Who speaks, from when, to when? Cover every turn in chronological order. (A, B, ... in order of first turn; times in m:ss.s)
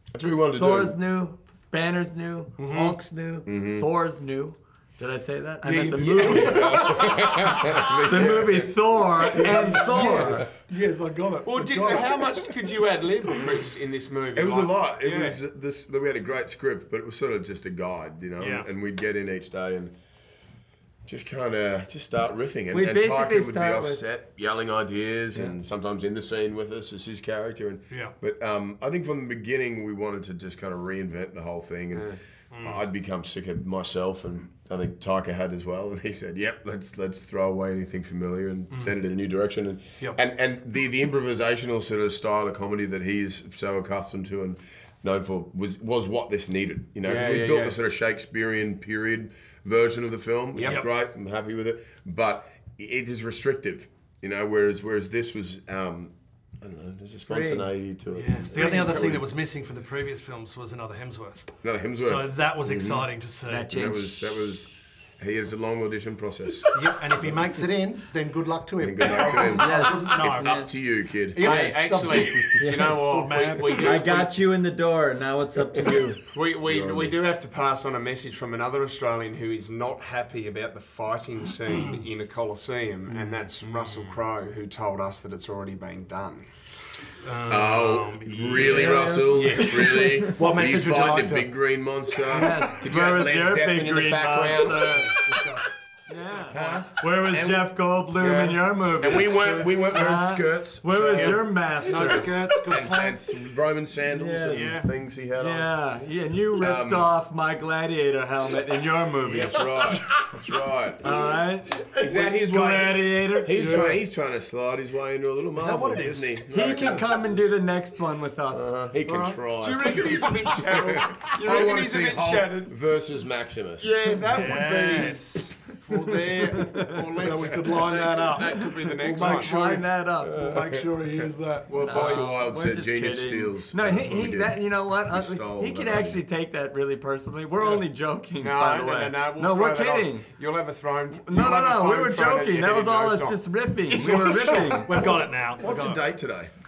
0:00.1-0:01.0 A
0:00.5-0:10.5 B
0:02.6-0:03.0 C
0:03.4-0:03.9 A
0:05.6-0:07.8 C
0:06.2-0:08.7 A
0:09.4-0:10.6 A
0:09.4-0:12.3 C
0:11.4-0:15.4 D
0:14.3-0:19.9 A
0:18.4-0:18.7 C
0:21.0-0:59.2 A
0:22.7-0:24.0 B
0:32.5-0:32.8 C
0:47.0-0:47.8 D
0:50.5-0:50.8 D
0:57.3-0:57.7 B
0:58.1-1:03.7 C
0:58.5-0:59.2 D
1:01.6-1:03.1 A
1:03.5-1:04.4 B
1:03.7-1:06.7 A
1:06.7-1:10.6 C
1:08.8-1:12.4 A
1:09.2-1:10.7 B
1:11.3-1:14.1 C
1:11.4-1:14.3 D
1:12.6-1:13.0 B
1:13.8-1:16.2 B
1:16.3-1:26.5 D
1:16.6-1:17.2 A
1:23.6-1:24.2 C
1:27.2-1:29.1 C
1:27.5-1:35.1 A
1:28.6-1:30.5 B
1:28.6-1:30.2 D
1:30.3-1:31.5 C
1:32.3-1:35.2 B
1:34.8-1:35.7 C
1:36.1-1:42.6 B
1:36.5-1:45.7 A
1:39.0-1:39.7 D
1:41.1-1:43.2 C
1:44.1-1:49.8 B
1:44.5-1:44.9 C
1:46.6-1:47.1 A
1:49.2-1:51.1 A
1:51.0-1:53.9 B
1:51.9-1:57.5 A
1:53.6-1:53.9 C
1:55.5-1:57.1 C
1:56.5-1:59.0 B
1:58.5-2:03.9 A
1:59.6-2:02.7 D
2:03.8-2:09.5 D
2:04.3-2:05.5 C
2:06.4-2:06.8 B
2:07.2-2:08.6 C
2:08.4-2:10.6 B
2:09.1-2:11.7 C
2:10.2-2:11.3 A
2:11.7-2:12.3 D
2:11.7-2:20.3 B
2:11.9-2:16.2 A
2:18.4-2:23.4 D
2:21.1-2:25.0 B
2:23.9-2:26.0 C
2:24.7-2:26.5 A